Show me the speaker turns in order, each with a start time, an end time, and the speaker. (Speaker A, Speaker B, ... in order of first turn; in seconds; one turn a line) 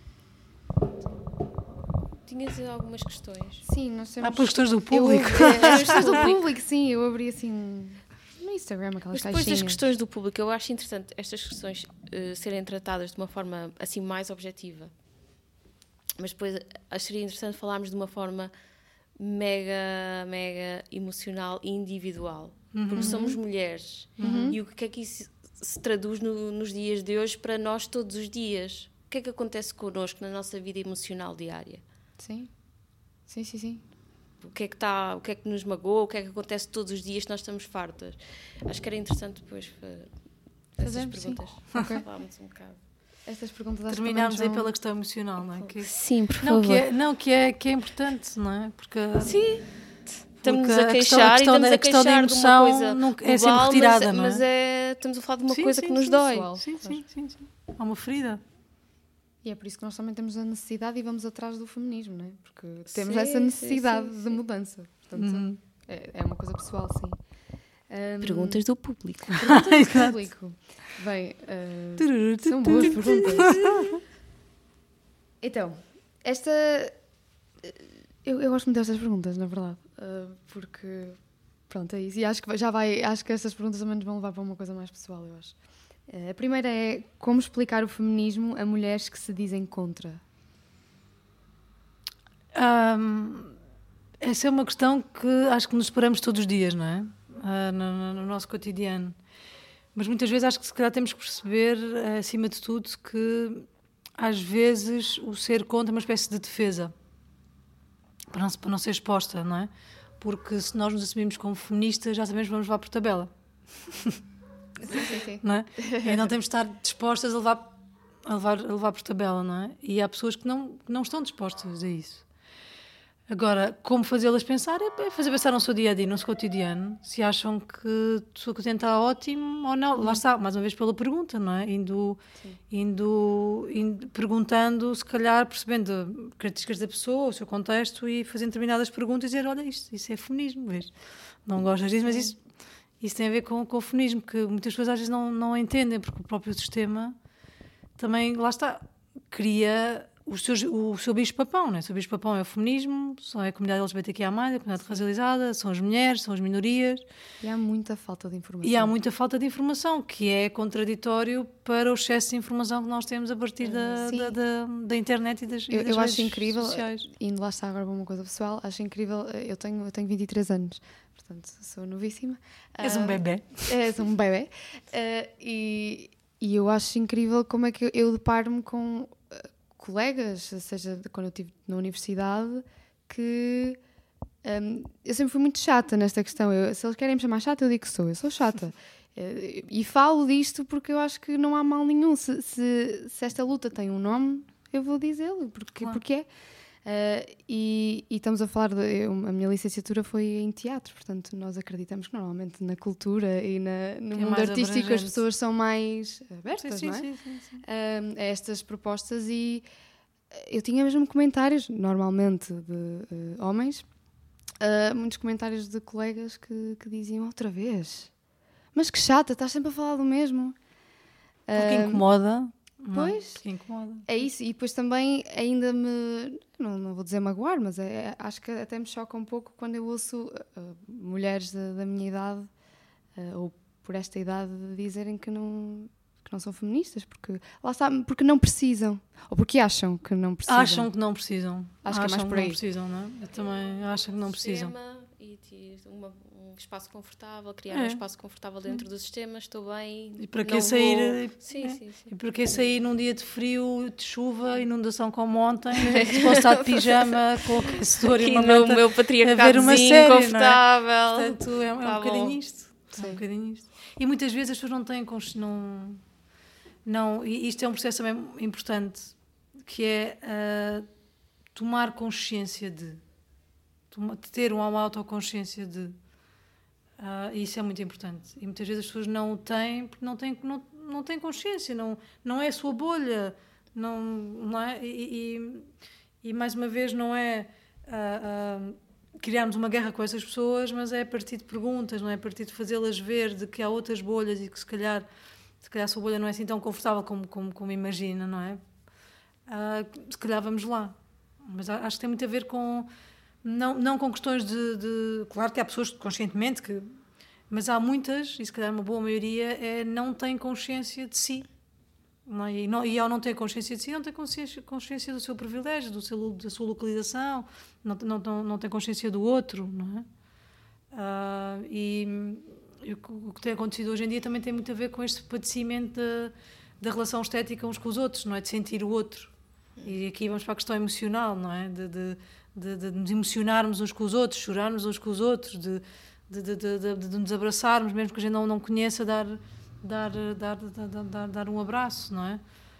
Speaker A: 2.2-3.6
Speaker B: 3.6-9.8
Speaker C: 4.2-6.3
Speaker A: 5.3-6.4
Speaker A: 9.1-14.9
Speaker A: 16.2-18.5
Speaker A: 19.2-31.8
Speaker C: 22.7-23.1
Speaker B: 22.9-23.4
Speaker C: 24.2-24.5
Speaker B: 24.2-24.6
Speaker B: 32.2-32.5
Speaker B: 33.3-33.8
Speaker A: 34.4-40.1
Speaker A: 40.7-42.8
Speaker B: 40.8-42.0
Speaker B: 43.2-44.7
Speaker C: 43.9-49.4
Speaker A: 45.6-46.8
Speaker A: 49.2-56.5
Speaker C: 50.4-54.4
Speaker C: 55.5-58.4
Speaker B: 56.1-57.0
Speaker B: 59.4-67.2
Speaker A: 62.9-64.4
Speaker C: 65.1-65.6
Speaker B: 67.9-68.6
Speaker A: 68.2-69.5
Speaker C: 69.4-70.2
Speaker B: 69.4-73.6
Speaker C: 72.0-73.9
Speaker A: 72.7-74.0
Speaker B: 75.4-76.9
Speaker B: 77.6-85.5
Speaker B: 86.1-90.2
Speaker C: 92.5-93.5
Speaker C: 94.2-99.1
Speaker C: 99.9-103.7
Speaker C: 104.2-106.9
Speaker C: 108.3-109.7
Speaker C: 110.2-113.3
Speaker C: 113.9-114.2
Speaker B: 114.8-116.3
Speaker C: 115.0-117.7
Speaker C: 118.2-122.2
Speaker C: 123.3-140.9
Speaker B: 130.0-130.2
Speaker C: 141.4-142.4
Speaker C: 143.0-147.2
Speaker C: 148.0-157.0
Speaker B: 157.4-158.9
Speaker C: 158.6-167.1
Speaker A: 163.6-164.0
Speaker B: 164.0-164.3
Speaker B: 165.7-183.8
Speaker C: 172.8-173.8
Speaker B: 184.4-196.3
Speaker B: 196.8-209.6
Speaker C: 204.1-205.2
Speaker C: 206.6-207.6
Speaker B: 210.3-213.9
Speaker B: 214.6-218.1
Speaker B: 218.7-220.6
Speaker B: 221.5-222.1
Speaker C: 221.5-224.1
Speaker B: 222.9-223.4
Speaker B: 224.1-232.5
Speaker B: 233.1-240.9
Speaker C: 240.5-244.7
Speaker B: 241.8-242.6
Speaker A: 243.3-252.6
Speaker C: 247.7-248.0
Speaker C: 250.2-266.0
Speaker A: 255.8-262.4
Speaker B: 262.9-263.2
Speaker C: 266.8-269.1
Speaker C: 269.6-270.9
Speaker C: 271.5-273.0
Speaker C: 273.9-275.9
Speaker C: 277.0-285.7
Speaker C: 286.2-295.1
Speaker C: 295.6-298.6
Speaker C: 299.5-302.9
Speaker C: 303.4-306.9
Speaker C: 307.5-311.5
Speaker C: 312.2-320.1
Speaker C: 320.9-329.3
Speaker C: 329.8-342.4